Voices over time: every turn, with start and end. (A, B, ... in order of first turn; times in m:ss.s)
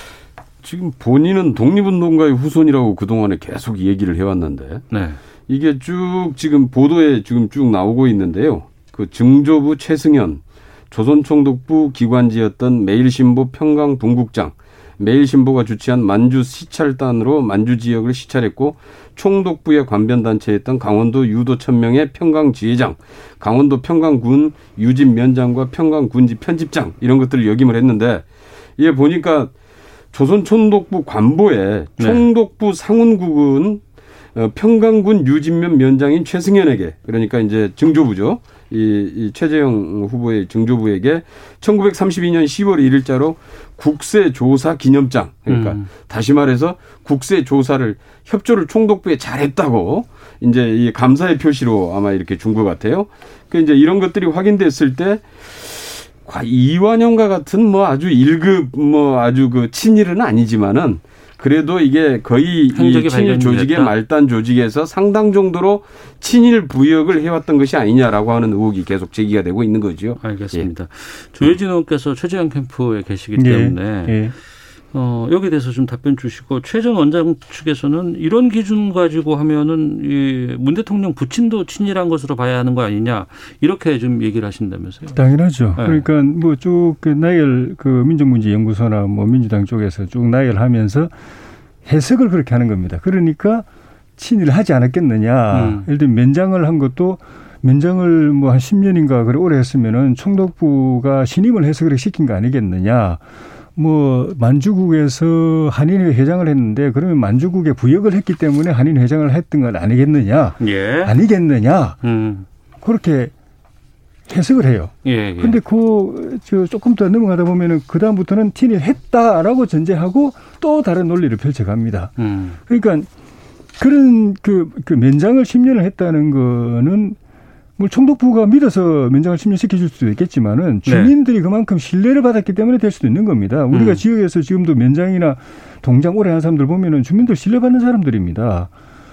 0:00.6-0:04.8 A
0:04.9-0:05.2 B
0:05.5-0:28.2 A
0:28.8-0:29.5 A
0:30.1-0:33.8 A
0:32.0-0:32.2 B
0:34.4-1:10.7 A
0:45.5-0:45.8 B
1:02.7-1:03.9 B
1:10.2-1:14.3 B
1:13.3-1:14.3 C
1:14.9-1:25.2 B
1:25.1-1:31.1 C
1:25.8-1:26.0 B
1:31.8-1:33.6 C
1:34.2-1:43.2 C
1:35.5-1:35.8 B
1:43.7-1:52.0 C
1:50.6-1:51.1 B
1:52.0-1:52.4 B
1:52.8-1:53.3 C
1:54.3-2:02.1 C
1:55.0-1:55.6 B
2:02.2-2:02.6 B
2:02.7-2:03.1 C
2:03.8-2:07.2 C
2:07.8-2:18.7 C
2:10.8-2:11.1 B
2:13.7-2:14.0 B